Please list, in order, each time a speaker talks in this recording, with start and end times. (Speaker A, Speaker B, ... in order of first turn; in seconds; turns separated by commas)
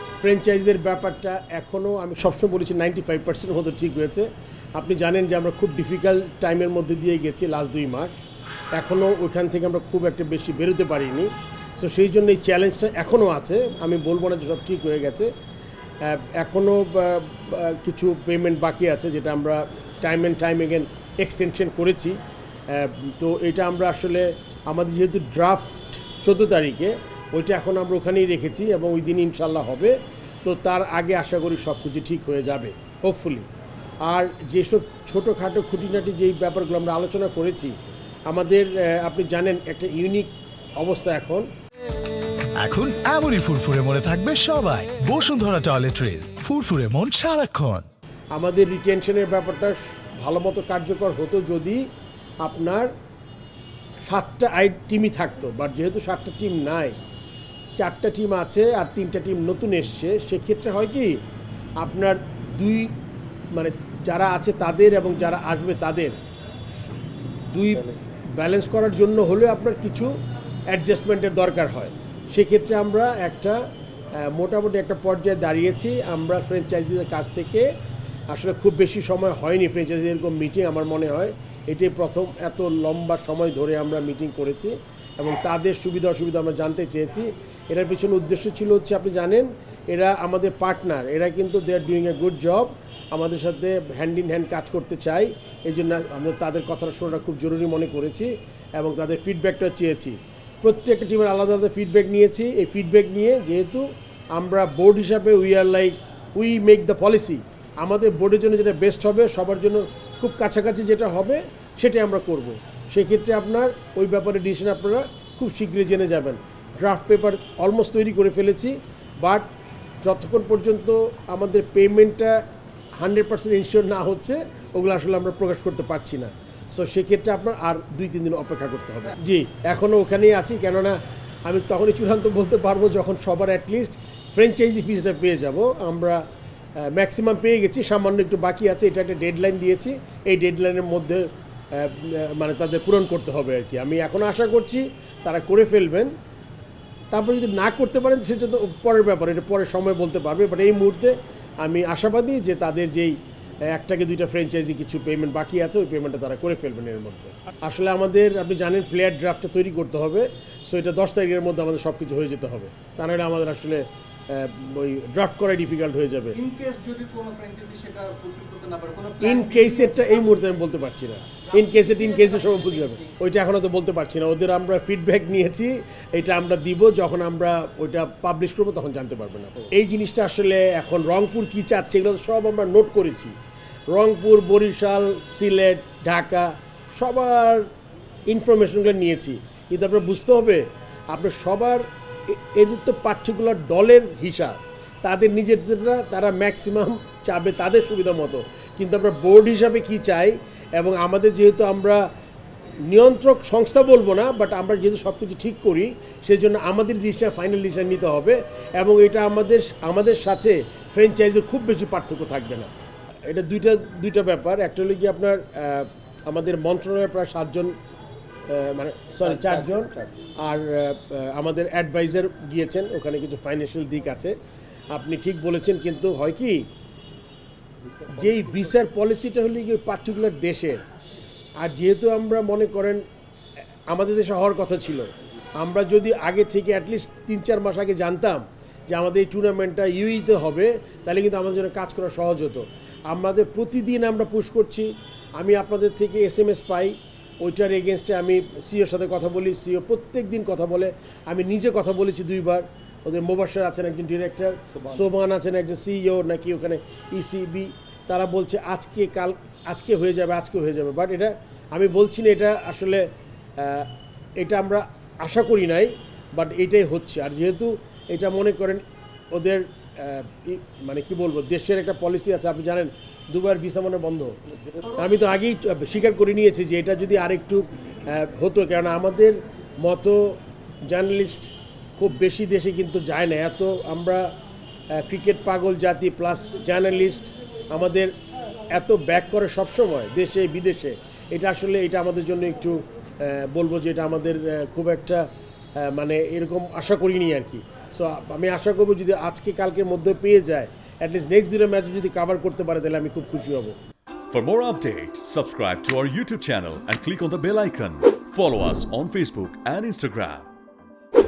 Speaker A: 0.2-8.2, Speaker A: 8.7-15.3, Speaker A: 16.0-22.2, Speaker A: 22.7-33.5, Speaker A: 34.0-37.8, Speaker A: 38.3-41.5, Speaker B: 42.6-47.9, Speaker A: 48.3-51.8, Speaker A: 52.4-52.9, Speaker A: 54.1-57.0, Speaker A: 57.8-61.2, Speaker A: 61.8-62.9, Speaker A: 63.5-66.2, Speaker A: 67.5-70.1, Speaker A: 70.7-73.6, Speaker A: 74.2-77.7, Speaker A: 78.3-119.5, Speaker A: 120.0-122.4, Speaker A: 123.0-136.2, Speaker A: 136.8-146.1, Speaker A: 147.1-153.2, Speaker A: 153.7-166.4, Speaker C: 166.3-170.4, Speaker A: 169.2-183.3, Speaker C: 171.4-173.2, Speaker A: 183.9-187.7, Speaker A: 188.3-202.1, Speaker A: 202.9-212.7, Speaker A: 213.3-217.7, Speaker A: 218.5-224.3, Speaker C: 219.3-220.1, Speaker A: 224.9-226.6, Speaker C: 228.0-228.3, Speaker A: 228.1-230.8, Speaker A: 231.6-233.0, Speaker A: 233.9-263.0, Speaker A: 263.6-263.9, Speaker A: 264.4-284.3, Speaker C: 274.8-275.0, Speaker A: 284.9-288.1, Speaker A: 288.7-295.2, Speaker A: 295.8-303.8, Speaker D: 304.3-310.5